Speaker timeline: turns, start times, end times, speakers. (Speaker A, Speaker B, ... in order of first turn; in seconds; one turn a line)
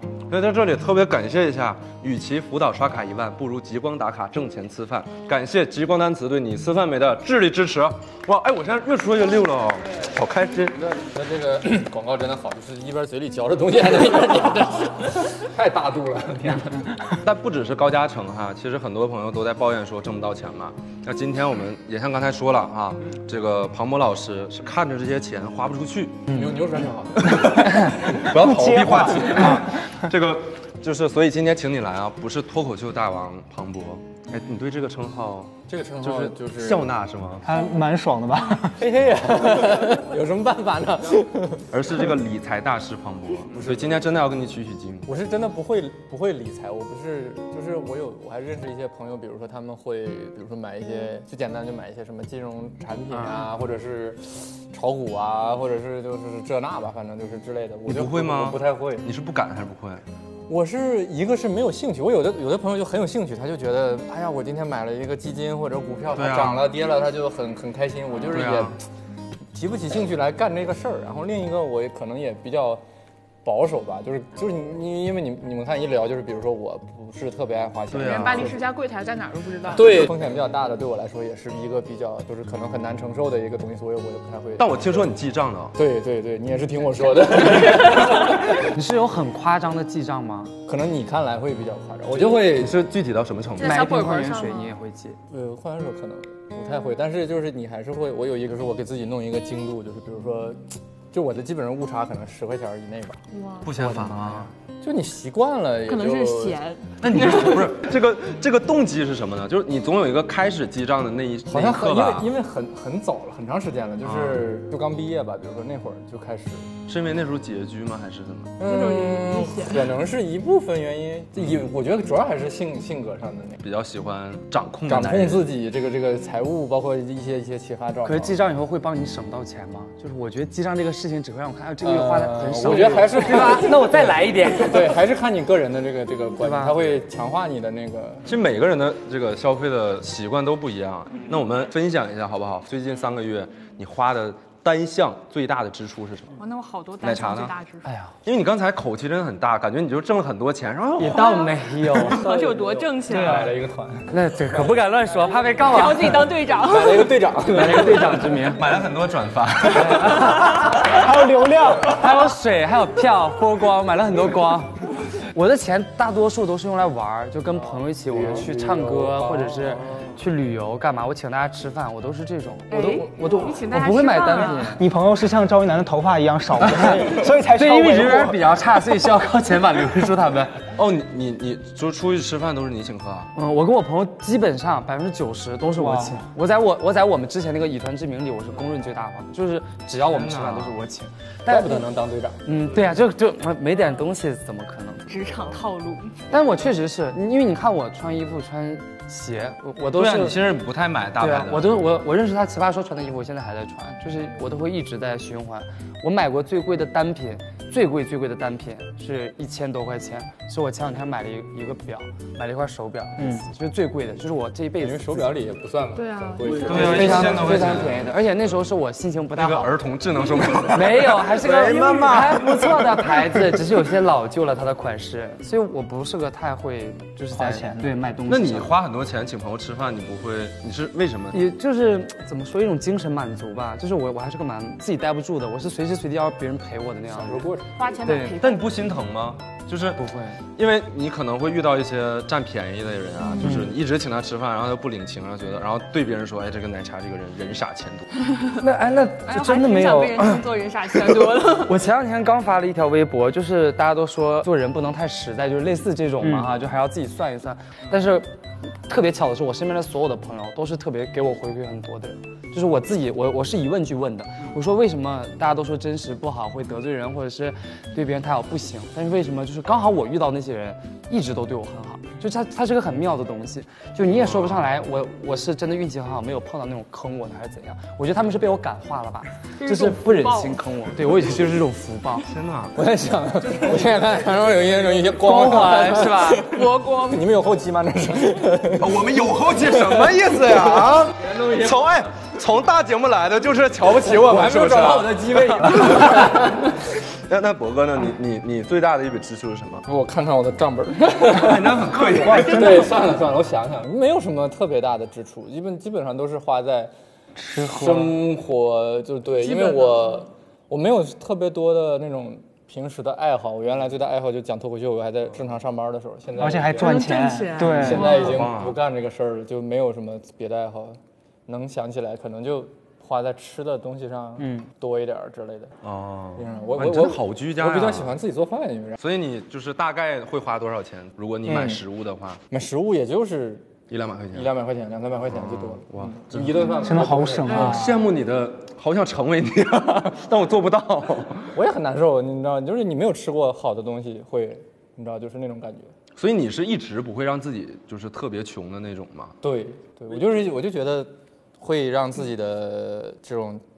Speaker A: 0.3-11.0
Speaker B: 11.1-16.9
Speaker A: 17.2-26.3
Speaker B: 26.3-28.0
Speaker A: 27.2-37.4
Speaker C: 27.8-29.7
Speaker B: 35.7-36.9
Speaker C: 37.4-38.8
Speaker B: 38.8-41.8
Speaker A: 41.7-45.1
Speaker B: 43.5-44.1
Speaker B: 45.0-59.1
Speaker D: 53.1-53.4
Speaker A: 57.9-60.0
Speaker B: 60.5-68.8
Speaker A: 66.1-66.6
Speaker A: 68.3-68.7
Speaker B: 69.5-72.8
Speaker B: 73.4-78.5
Speaker A: 77.9-78.5
Speaker E: 78.0-80.1
Speaker B: 79.7-84.8
Speaker A: 84.6-85.7
Speaker B: 85.7-88.2
Speaker D: 88.5-90.5
Speaker B: 90.7-92.8
Speaker A: 92.1-93.8
Speaker E: 93.6-94.7
Speaker D: 93.6-95.2
Speaker B: 95.3-103.2
Speaker E: 103.3-103.7
Speaker A: 103.6-104.5
Speaker B: 103.9-104.2
Speaker B: 104.8-106.6
Speaker E: 105.8-107.7
Speaker A: 107.0-112.3
Speaker B: 111.5-116.7
Speaker A: 114.0-114.5
Speaker A: 116.9-118.6
Speaker B: 118.6-123.6
Speaker E: 118.6-119.9
Speaker A: 123.6-125.5
Speaker B: 124.9-128.4
Speaker D: 128.0-135.0
Speaker B: 131.8-138.3
Speaker D: 136.4-137.0
Speaker A: 138.2-146.3
Speaker E: 146.4-147.9
Speaker A: 147.0-147.6
Speaker D: 147.8-148.1
Speaker A: 148.2-151.4
Speaker D: 151.0-152.2
Speaker E: 151.1-153.4
Speaker B: 152.1-154.1
Speaker D: 154.1-156.3
Speaker E: 155.6-157.2
Speaker B: 156.6-158.4
Speaker D: 157.5-158.6
Speaker A: 158.5-160.3
Speaker D: 159.7-160.7
Speaker C: 160.7-162.0
Speaker D: 161.9-174.8
Speaker B: 168.0-170.1
Speaker E: 172.7-174.8
Speaker C: 174.8-178.4
Speaker D: 176.7-180.5
Speaker A: 180.7-183.3
Speaker D: 183.3-191.9
Speaker C: 185.8-186.2
Speaker A: 190.0-190.8
Speaker B: 191.5-192.4
Speaker D: 192.4-195.3
Speaker E: 195.1-196.1
Speaker D: 196.3-200.4
Speaker A: 199.9-201.7
Speaker D: 201.2-215.3
Speaker C: 213.2-213.4
Speaker B: 214.8-217.9
Speaker E: 215.9-216.7
Speaker A: 216.7-218.1
Speaker D: 216.7-219.7
Speaker A: 219.3-223.1
Speaker D: 220.7-228.7
Speaker C: 227.3-227.9
Speaker A: 228.2-231.4
Speaker D: 231.3-237.5
Speaker B: 237.1-238.0
Speaker E: 237.8-238.7
Speaker D: 238.0-238.4
Speaker A: 238.4-240.0
Speaker D: 240.0-240.4
Speaker A: 240.6-248.1
Speaker D: 243.4-243.7
Speaker D: 248.6-250.4
Speaker E: 249.2-251.8
Speaker D: 251.6-258.3
Speaker D: 258.9-282.3
Speaker A: 274.1-274.6
Speaker E: 279.6-280.6
Speaker A: 282.2-282.8
Speaker B: 282.7-291.9
Speaker D: 285.1-286.5
Speaker E: 286.4-287.2
Speaker A: 288.8-296.6
Speaker B: 294.0-296.7
Speaker A: 297.3-299.9
Speaker B: 299.9-306.9
Speaker A: 301.2-302.9
Speaker C: 302.2-302.9
Speaker C: 307.4-308.1
Speaker B: 307.5-317.1
Speaker E: 309.4-310.2
Speaker C: 316.4-318.2
Speaker E: 316.8-318.4
Speaker B: 317.7-325.7
Speaker A: 318.1-318.8
Speaker A: 325.8-328.1
Speaker B: 326.4-329.0
Speaker A: 329.0-332.4
Speaker B: 331.4-331.8
Speaker B: 332.5-333.8
Speaker A: 333.9-334.5
Speaker B: 334.3-337.8
Speaker A: 335.3-336.8
Speaker C: 336.8-338.0
Speaker A: 337.5-341.5
Speaker B: 341.5-345.9
Speaker A: 346.2-349.4
Speaker B: 349.4-353.6